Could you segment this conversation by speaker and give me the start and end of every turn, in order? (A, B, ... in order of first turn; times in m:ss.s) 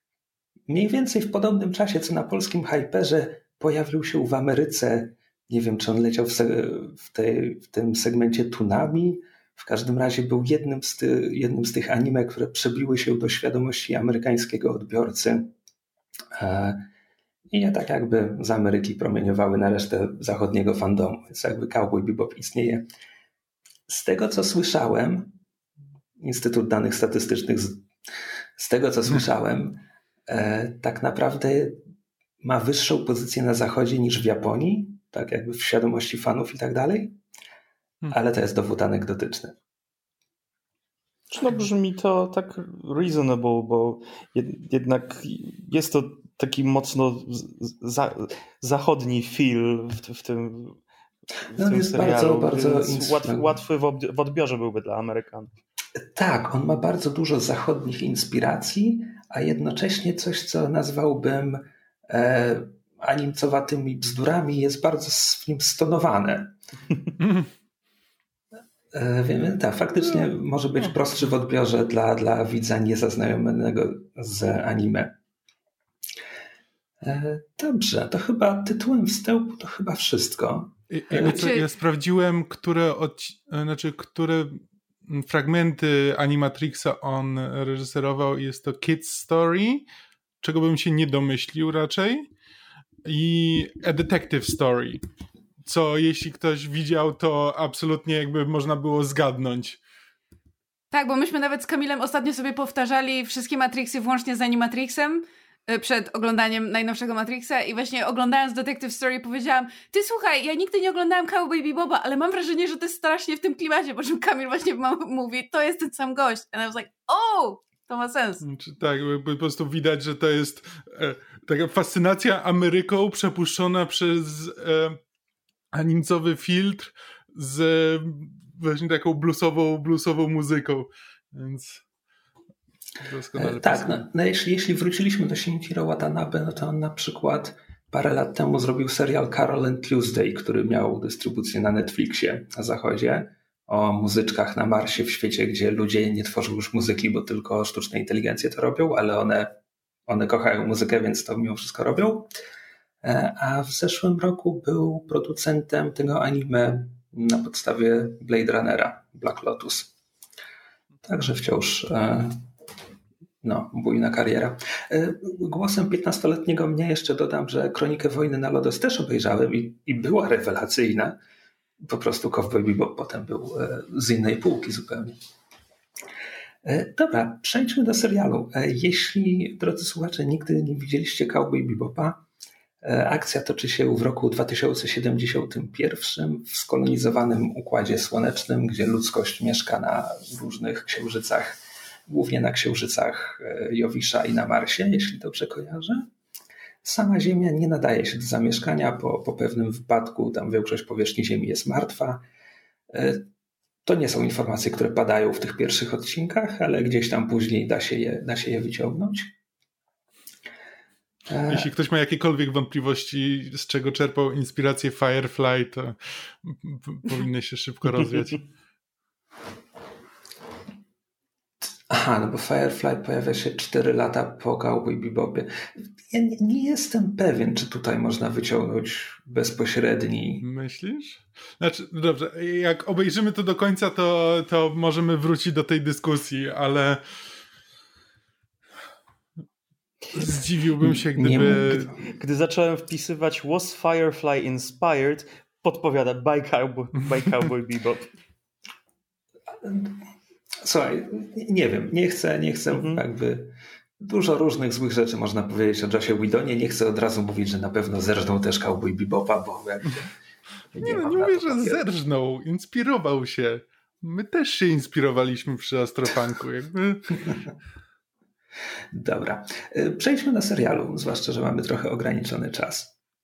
0:00.7-0:15.5 A
0:16.3-0:16.9 A
0:17.5-0:22.9 A
0:23.9-0:25.4 A
0:26.2-0:27.9 A
0:28.6-0:31.8 A
0:32.4-0:37.2 A
0:38.1-0:39.6 A
0:41.3-0:50.8 B
0:51.5-0:55.5 B
0:51.5-0:53.5 A
0:56.0-1:06.6 A
1:08.9-1:15.1 A
1:17.0-1:21.5 A
1:20.9-1:29.8 C
1:21.2-1:21.7 D
1:30.4-1:32.3 C
1:33.0-1:35.0 C
1:35.6-1:39.8 C
1:40.9-1:58.4 D
1:58.4-2:05.0 C
2:05.7-2:11.8 C
2:13.0-2:14.0 C
2:13.3-2:29.5 A
2:30.1-2:32.3 A
2:33.0-2:39.9 A
2:41.0-2:42.4 A
2:43.4-2:51.2 A
2:51.8-2:55.2 A
2:56.6-3:02.2 A
3:02.8-3:16.1 A
3:16.8-3:22.2 A
3:22.9-3:23.3 A
3:23.8-3:29.3 A
3:31.3-3:31.7 A
3:31.5-3:38.5 C
3:41.9-3:45.5 A
3:46.1-3:50.4 A
3:50.4-3:57.0 C
4:00.1-4:01.9 C
4:00.8-4:02.0 A
4:02.0-4:08.1 B
4:09.6-4:10.0 A
4:10.6-4:20.1 A
4:12.7-4:13.0 B
4:20.7-4:21.8 A
4:20.8-4:27.3 C
4:28.9-4:32.9 A